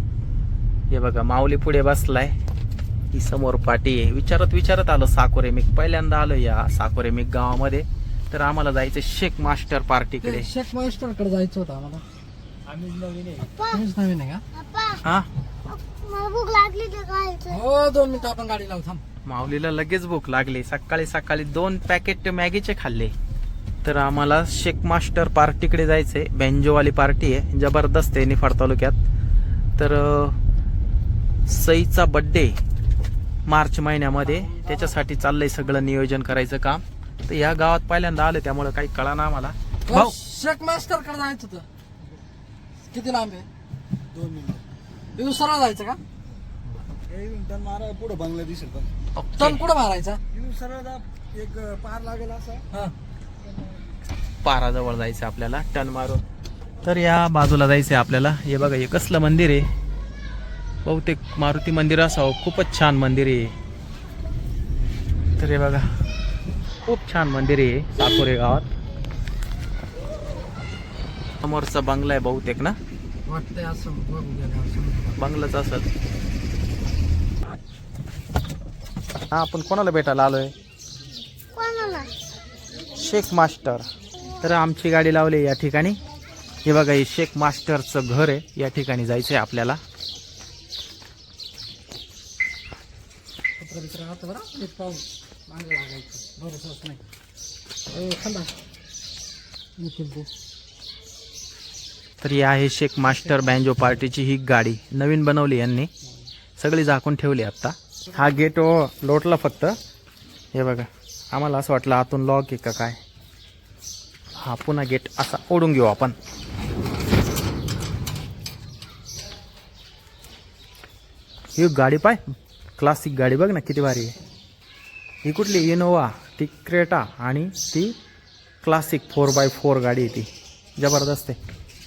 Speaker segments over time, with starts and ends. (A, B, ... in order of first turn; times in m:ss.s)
0:00.9-0:02.3 A
0:03.1-0:10.5 A
0:10.2-0:12.0 B
0:12.8-0:13.3 C
0:13.4-0:13.8 D
0:13.7-0:14.4 B
0:14.5-0:15.0 D
0:15.6-0:17.6 D
0:17.5-0:19.0 B
0:19.2-0:23.1 A
0:23.8-0:28.9 A
0:29.8-0:30.4 A
0:31.4-0:32.6 A
0:33.5-0:40.1 A
0:39.9-0:41.6 B
0:42.9-0:43.5 B
0:44.1-0:44.6 C
0:45.2-0:46.0 B
0:47.1-0:48.9 C
0:49.2-0:49.6 A
0:49.4-0:50.2 B
0:50.3-0:52.6 C
0:54.4-0:56.2 A
0:56.8-0:59.7 A
1:00.8-1:03.5 A
1:05.4-1:05.9 A
1:06.8-1:08.7 A
1:11.4-1:12.8 A
1:13.2-1:15.2 B
1:15.2-1:15.9 A
1:19.3-1:20.5 A
1:21.5-1:22.1 D
1:22.9-1:23.9 A
1:24.4-1:26.0 A
1:26.6-1:29.8 A
1:33.6-1:37.0 B
1:37.9-1:38.5 B
1:39.8-1:40.3 B
1:42.2-1:45.9 A
1:46.6-1:49.8 A
1:50.5-1:53.0 A
1:54.4-1:56.2 A
2:01.6-2:02.2 A
2:02.8-2:04.2 A
2:05.2-2:08.0 A
2:08.6-2:11.4 A